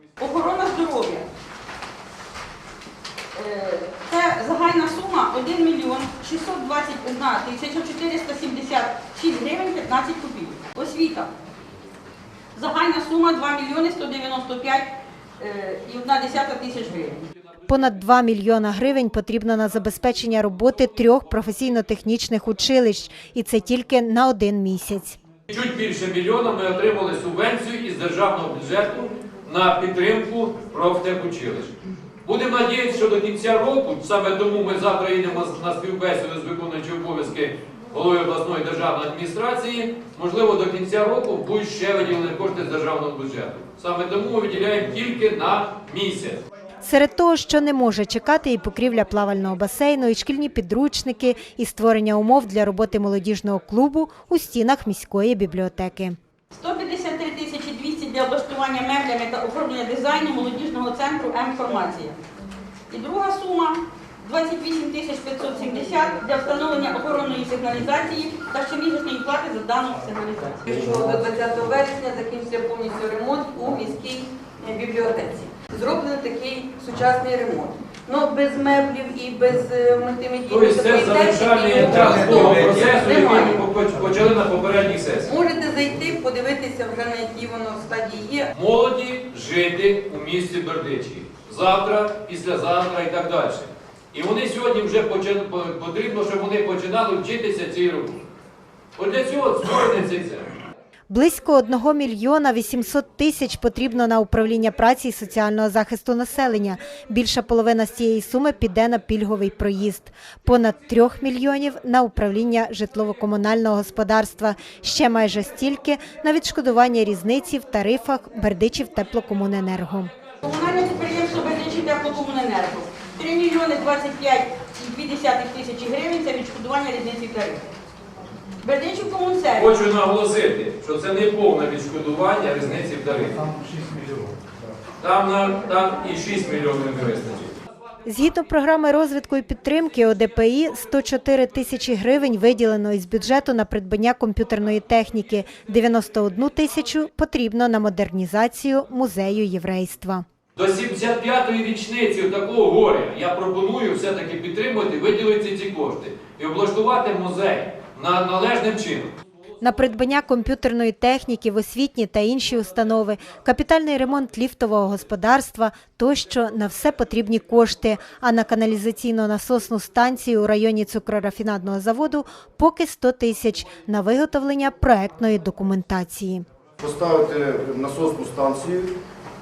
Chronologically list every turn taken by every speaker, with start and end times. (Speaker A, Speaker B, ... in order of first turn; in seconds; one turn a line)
Speaker A: 0.2-1.2
Speaker A: 3.3-11.3
Speaker A: 12.5-17.2
Speaker B: 17.7-25.2
Speaker C: 25.5-31.7
Speaker C: 32.2-46.4
Speaker B: 46.8-56.2
Speaker A: 56.5-62.1
Speaker A: 62.9-70.7
Speaker D: 70.7-83.7
Speaker C: 80.5-85.3
Speaker D: 85.2-88.5
Speaker C: 88.5-98.2
Speaker C: 99.0-100.5
Speaker B: 101.1-120.1
Speaker A: 120.4-127.7
Speaker A: 128.6-129.7
Speaker C: 129.6-133.5
Speaker C: 135.0-137.5
Speaker B: 138.1-150.2
Speaker C: 150.5-159.1
Speaker B: 159.6-176.4
Speaker E: 176.8-178.9